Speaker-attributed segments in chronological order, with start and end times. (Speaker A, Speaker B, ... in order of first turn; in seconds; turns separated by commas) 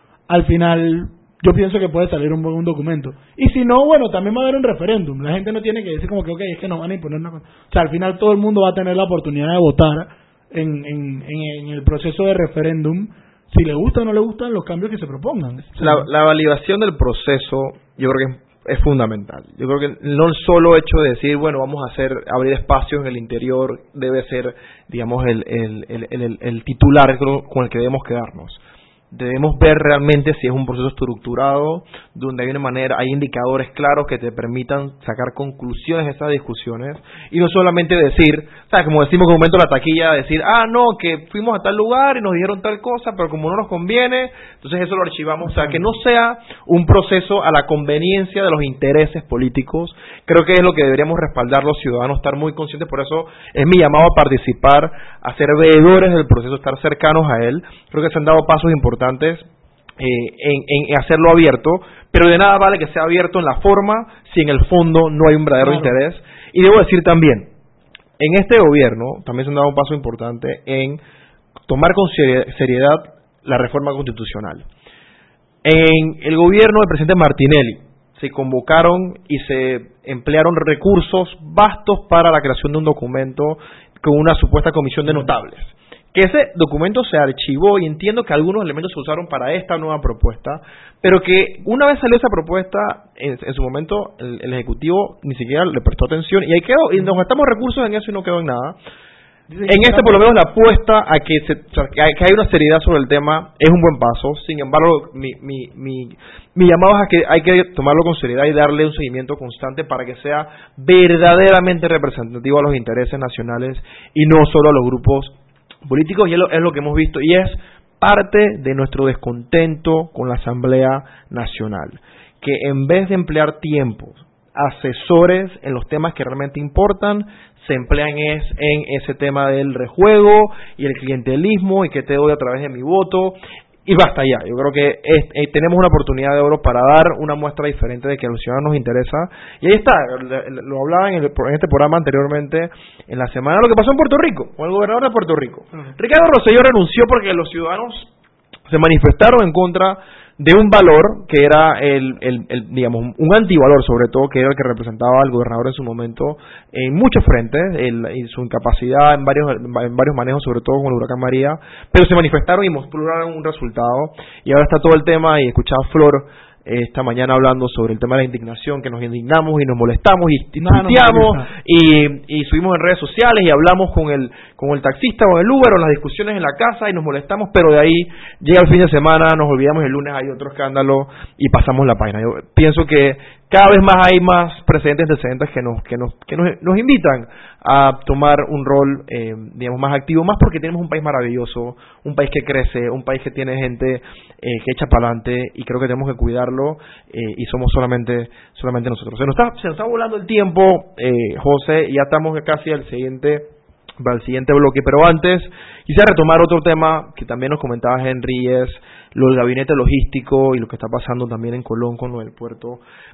Speaker A: 0.3-16.1, Speaker B: 15.8-59.5, Speaker A: 45.5-45.8, Speaker B: 60.0-67.5, Speaker A: 65.6-66.0, Speaker B: 68.2-71.0, Speaker B: 71.7-74.7, Speaker B: 75.6-98.8, Speaker A: 99.5-100.3, Speaker B: 99.7-115.3, Speaker B: 115.8-148.1, Speaker B: 148.7-212.8, Speaker A: 170.6-171.5